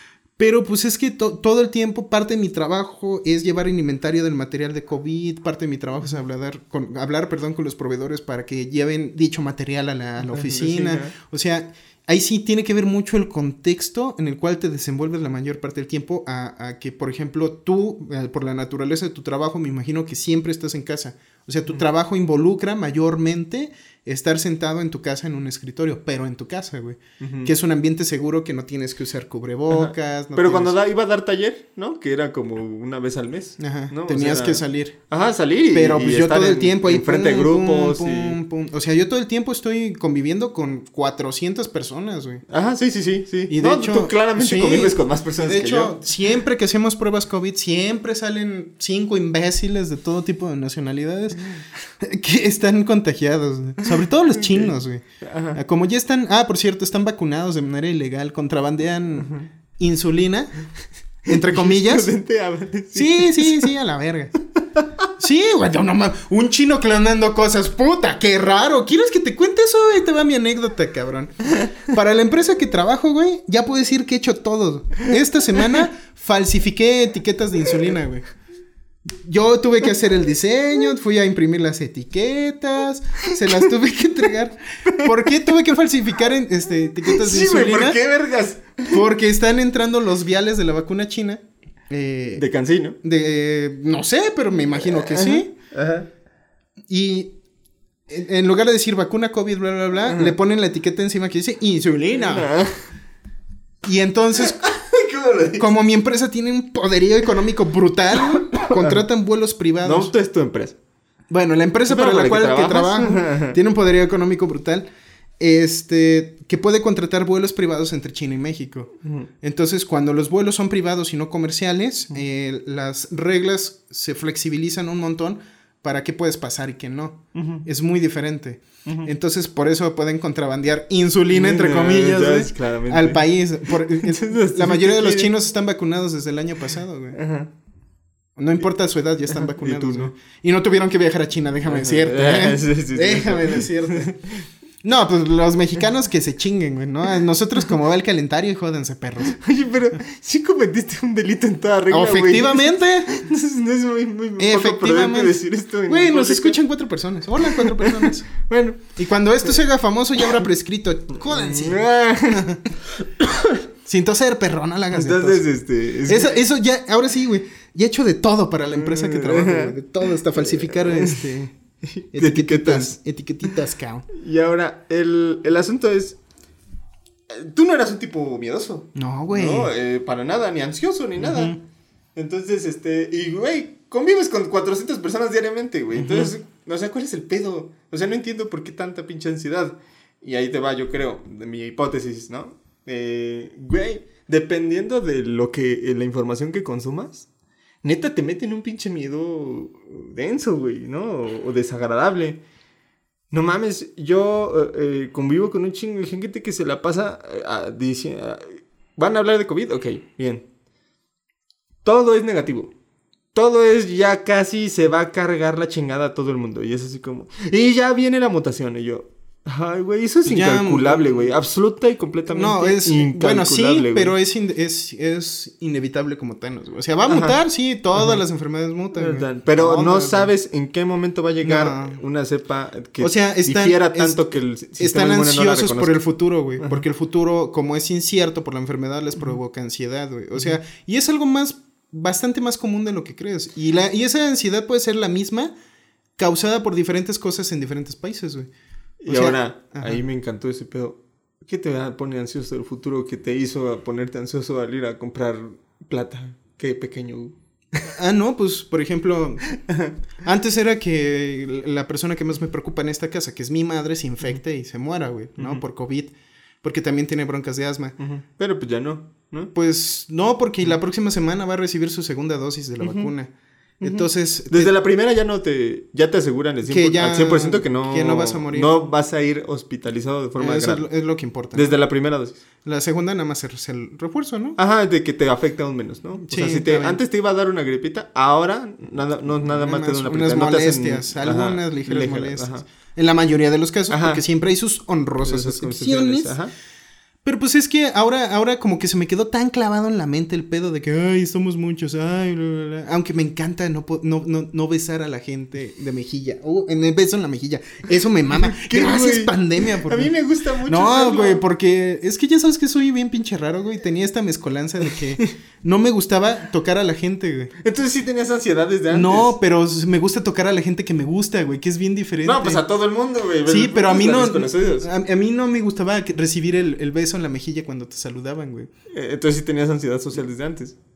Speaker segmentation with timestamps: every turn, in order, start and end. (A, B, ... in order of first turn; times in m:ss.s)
0:00.4-0:30.7 A
0:10.2-0:11.1 B
0:27.2-0:27.5 B
0:29.7-0:38.4 B
0:33.6-0:35.0 A
0:35.7-0:42.4 A
0:42.5-0:46.0 B
0:43.5-0:55.0 A
0:54.3-0:55.6 B
0:55.5-1:00.5 A
1:01.3-1:02.1 A
1:01.3-1:03.7 B
1:02.9-1:04.3 A
1:04.6-1:05.1 B
1:05.2-1:18.2 A
1:19.2-1:28.0 A
1:27.0-1:29.0 B
1:28.9-1:32.4 A
1:32.4-1:33.0 B
1:33.0-1:35.5 A
1:34.8-1:36.1 B
1:36.9-1:37.3 A
1:38.1-1:42.5 A
1:40.1-1:40.3 B
1:42.1-1:42.8 B
1:43.8-1:44.6 A
1:44.4-1:45.7 B
1:45.6-1:50.1 A
1:48.3-1:49.0 B
1:49.8-1:50.8 B
1:51.3-1:54.9 A
1:51.9-1:53.6 B
1:55.4-2:17.2 A
1:59.0-1:59.3 B
2:07.3-2:07.6 B
2:11.3-2:15.3 B
2:17.1-2:17.5 B
2:18.4-2:24.1 A
2:19.3-2:20.1 B
2:21.7-2:24.4 B
2:24.8-2:29.4 A
2:29.2-2:36.6 B
2:31.9-2:33.2 A
2:34.4-2:38.3 A
2:37.4-2:38.9 B
2:39.0-2:42.7 A
2:41.3-2:42.5 B
2:43.2-2:43.6 B
2:43.8-2:45.4 A
2:44.9-2:46.4 B
2:46.0-2:51.5 A
2:48.7-2:49.7 B
2:50.3-2:51.2 B
2:51.9-2:53.0 B
2:52.1-2:54.1 A
2:54.1-2:56.2 B
2:57.3-3:01.6 B
2:58.9-2:59.7 A
3:01.2-3:01.6 A
3:02.2-3:17.3 B
3:06.0-3:06.3 A
3:17.8-3:22.4 B
3:23.3-3:30.4 B
3:31.8-3:32.7 B
3:33.3-3:44.1 B
3:40.2-3:41.3 A
3:42.3-3:50.3 A
3:47.1-3:47.4 B
3:47.9-3:48.2 B
3:48.9-3:56.0 B
3:51.4-3:52.0 A
3:53.0-3:54.2 A
3:54.8-4:05.5 A
3:56.6-3:56.8 B
4:06.2-4:08.5 A
4:09.0-4:17.9 B
4:09.1-4:10.0 A
4:17.9-4:19.4 A
4:19.5-4:19.9 B
4:20.2-4:28.0 A
4:25.4-4:25.6 B
4:28.0-4:29.5 B
4:29.5-4:33.3 A
4:32.8-4:33.1 B
4:33.8-4:40.9 B
4:33.8-4:34.7 A
4:36.7-4:38.7 A
4:40.4-4:41.7 A
4:41.5-4:42.4 B
4:42.6-4:44.6 A
4:44.6-4:52.6 B
4:46.2-4:47.0 A
4:49.4-4:56.4 A
4:53.9-4:54.2 B
4:55.2-4:56.5 B
4:57.2-5:17.5 A
5:08.3-5:11.4 B
5:17.6-5:19.3 B
5:18.9-5:22.6 A
5:22.2-5:24.9 B
5:23.4-5:28.7 A
5:28.9-5:30.7 B